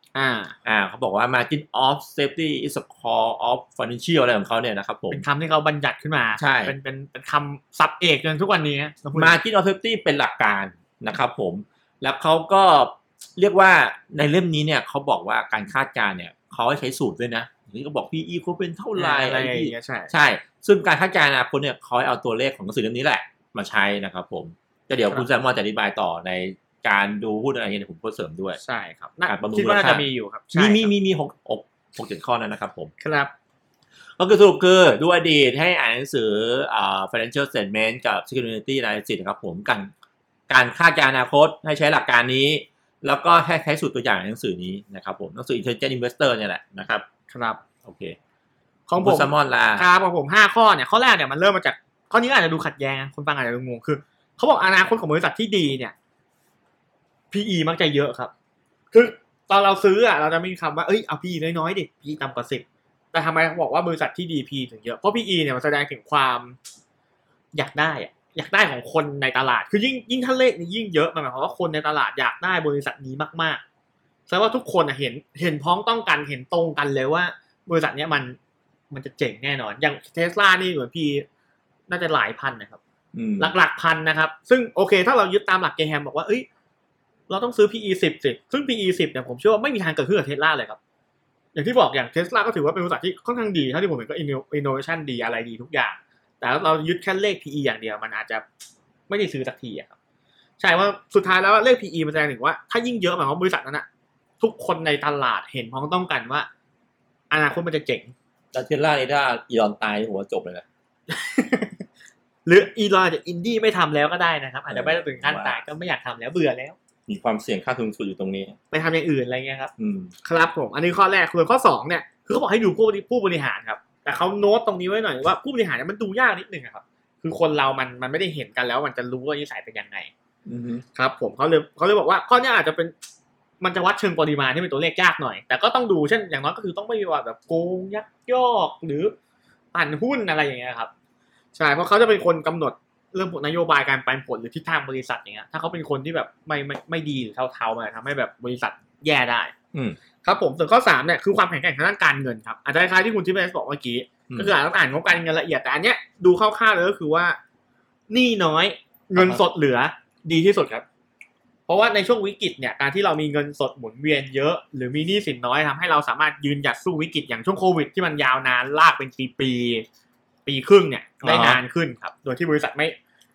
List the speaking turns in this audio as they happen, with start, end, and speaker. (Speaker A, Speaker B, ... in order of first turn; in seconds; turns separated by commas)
Speaker A: 0.1-0.5, Speaker B: 0.6-5.2, Speaker A: 5.1-9.3, Speaker B: 6.4-6.7, Speaker B: 9.1-28.6, Speaker A: 18.9-20.1, Speaker A: 28.6-30.9, Speaker B: 29.3-32.9, Speaker A: 33.0-33.3, Speaker B: 34.2-39.9, Speaker B: 40.5-47.0, Speaker A: 47.3-47.6, Speaker B: 47.8-48.2, Speaker A: 48.9-55.9, Speaker B: 49.0-49.9, Speaker A: 57.3-58.3, Speaker A: 58.9-66.6, Speaker A: 67.5-73.6, Speaker A: 74.3-78.4, Speaker A: 78.9-81.2, Speaker A: 81.9-82.8, Speaker B: 83.1-83.5, Speaker A: 83.4-86.5, Speaker A: 87.3-90.8, Speaker A: 91.5-98.4, Speaker A: 99.1-99.9, Speaker A: 100.6-103.8, Speaker A: 104.4-106.5, Speaker A: 107.3-108.1, Speaker B: 108.5-110.6, Speaker A: 111.1-111.8, Speaker A: 112.5-116.8, Speaker B: 114.7-115.6, Speaker B: 117.1-118.6, Speaker A: 118.7-119.7, Speaker B: 119.8-120.1, Speaker A: 120.2-130.1, Speaker B: 130.4-130.8, Speaker A: 130.9-132.9, Speaker A: 133.6-139.1, Speaker A: 139.7-140.9, Speaker A: 141.5-149.5, Speaker A: 150.2-157.4, Speaker A: 158.1-160.8, Speaker B: 159.2-159.4, Speaker A: 161.7-169.8, Speaker A: 170.4-172.9, Speaker B: 171.2-171.6